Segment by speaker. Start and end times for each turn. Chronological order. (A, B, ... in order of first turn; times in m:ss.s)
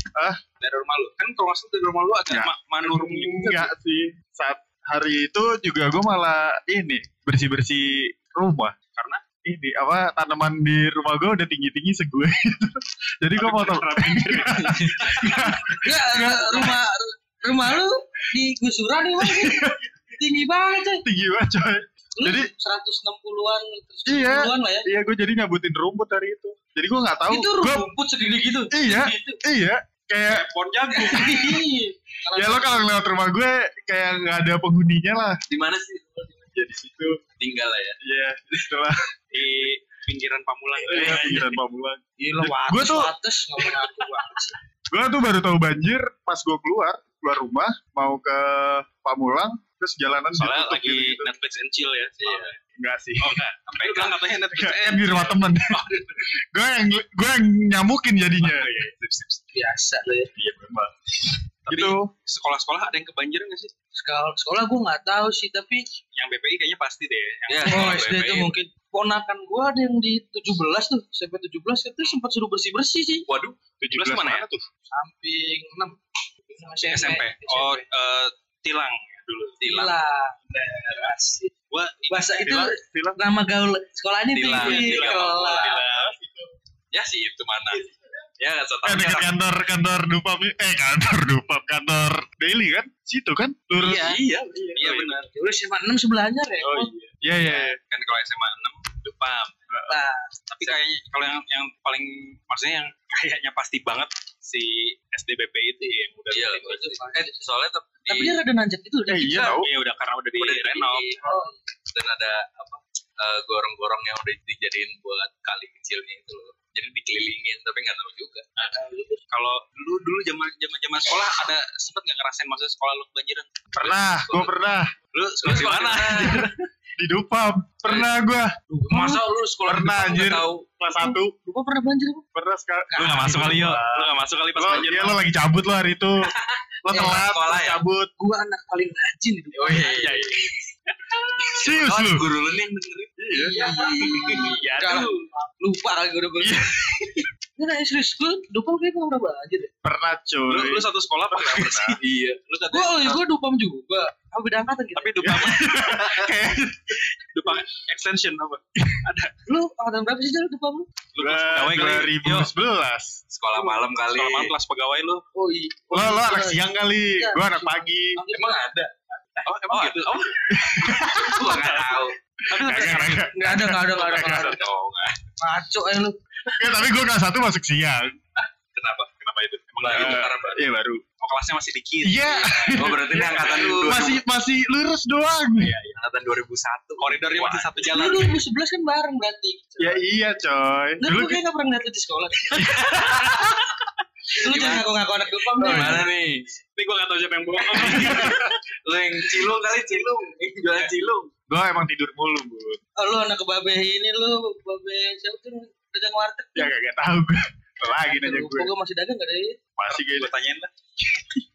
0:00.6-0:03.7 A
0:02.3-0:08.8 B
0:08.9-0:09.2 A
0:09.4-0:16.8 B
0:13.4-0:15.8 A
0:14.6-0:15.5 C
0:15.8-0:21.0 D
0:19.2-0:19.9 B
0:21.0-0:22.5 B
0:22.2-0:24.9 D
0:24.1-0:27.9 B
0:27.3-0:29.4 D
0:28.7-0:30.5 B
0:30.3-0:31.6 A
0:30.9-0:32.9 D
0:32.4-0:35.4 B
0:35.5-0:36.3 C
0:36.5-0:37.2 B
0:37.4-0:38.0 C
0:38.0-0:39.0 B
0:39.3-0:41.5 A
0:40.8-0:43.1 B
0:40.9-0:41.4 C
0:42.2-0:44.6 D
0:44.9-0:51.3 B
0:50.4-0:52.6 A
0:52.8-0:53.4 B
0:53.2-0:56.3 A
0:53.8-0:54.1 C
0:54.5-0:58.7 B
0:58.4-0:59.4 A
0:59.5-1:00.3 D
1:00.4-1:00.9 B
1:01.7-1:03.7 A
1:01.7-1:02.1 B
1:04.0-1:05.8 D
1:06.1-1:08.4 A
1:07.5-1:08.5 C
1:07.7-1:13.3 D
1:13.3-1:13.6 C
1:13.8-1:14.4 A
1:13.8-1:14.7 B
1:14.9-1:17.9 D
1:16.8-1:19.6 A
1:19.6-1:20.0 C
1:19.7-1:20.4 D
1:20.5-1:22.7 A
1:20.9-1:21.5 D
1:22.1-1:25.8 D
1:22.5-1:23.2 B
1:24.3-1:25.8 C
1:24.5-1:26.2 A
1:25.8-1:26.5 B
1:26.9-1:27.8 C
1:28.4-1:29.4 C
1:28.8-1:35.0 B
1:33.8-1:35.3 A
1:34.1-1:35.1 C
1:35.3-1:36.9 D
1:36.6-1:37.8 B
1:37.0-1:39.5 A
1:39.7-1:40.0 B
1:39.9-1:40.3 D
1:40.5-1:46.9 A
1:46.3-1:48.4 C
1:46.6-1:47.5 D
1:48.1-1:49.6 D
1:49.1-1:49.7 B
1:49.4-1:51.2 A
1:50.4-1:51.2 C
1:51.2-1:51.6 D
1:51.9-1:58.5 C
1:58.6-1:59.2 D
1:59.3-2:03.5 A
2:03.7-2:04.9 B
2:03.8-2:04.5 C
2:05.1-2:06.5 A
2:05.4-2:06.5 C
2:06.2-2:08.6 B
2:08.7-2:09.3 D
2:08.9-2:10.7 C
2:08.9-2:09.2 A
2:09.7-2:11.3 B
2:10.9-2:12.2 D
2:12.4-2:16.2 B
2:12.9-2:13.6 D
2:13.0-2:15.2 A
2:16.4-2:17.8 C
2:16.8-2:18.1 B
2:16.9-2:17.2 D
2:18.2-2:20.1 D
2:19.6-2:20.5 C
2:19.7-2:21.6 A
2:21.5-2:24.5 C
2:21.6-2:22.3 B
2:23.2-2:23.7 B
2:23.3-2:29.7 D
2:24.0-2:25.3 A
2:26.4-2:27.1 B
2:29.8-2:32.0 B
2:30.5-2:33.2 A
2:32.0-2:32.4 C
2:32.7-2:35.4 D
2:35.0-2:36.4 A
2:35.2-2:37.0 B
2:37.3-2:39.3 A
2:39.5-2:40.9 D
2:41.2-2:42.5 A
2:41.2-2:43.2 B
2:43.3-2:44.5 C
2:43.5-2:45.2 A
2:45.4-2:48.6 D
2:45.9-2:48.2 B
2:48.3-2:50.4 C
2:49.4-2:50.3 A
2:50.5-2:51.6 B
2:50.8-2:55.2 A
2:50.9-2:52.2 C
2:52.5-2:54.6 B
2:53.3-2:54.6 D
2:55.4-2:56.2 D
2:56.5-2:58.2 B
2:58.7-2:59.1 C
2:59.2-3:00.4 A
2:59.8-3:00.6 C
2:59.9-3:01.0 B
3:01.2-3:04.2 A
3:02.0-3:05.8 B
3:02.7-3:04.2 C
3:05.6-3:06.0 A
3:06.0-3:07.8 C
3:07.0-3:08.4 A
3:07.8-3:10.0 D
3:09.8-3:11.4 B
3:11.0-3:12.9 D
3:12.6-3:13.6 C
3:12.8-3:13.5 B
3:14.3-3:16.1 D
3:14.4-3:14.9 C
3:15.6-3:16.1 B
3:15.6-3:16.5 C
3:16.8-3:18.5 A
3:17.7-3:21.3 C
3:17.7-3:18.5 B
3:20.7-3:20.9 A
3:21.5-3:22.8 B
3:23.0-3:26.7 D
3:26.6-3:28.7 B
3:28.0-3:29.6 D
3:29.8-3:30.3 B
3:29.8-3:30.7 A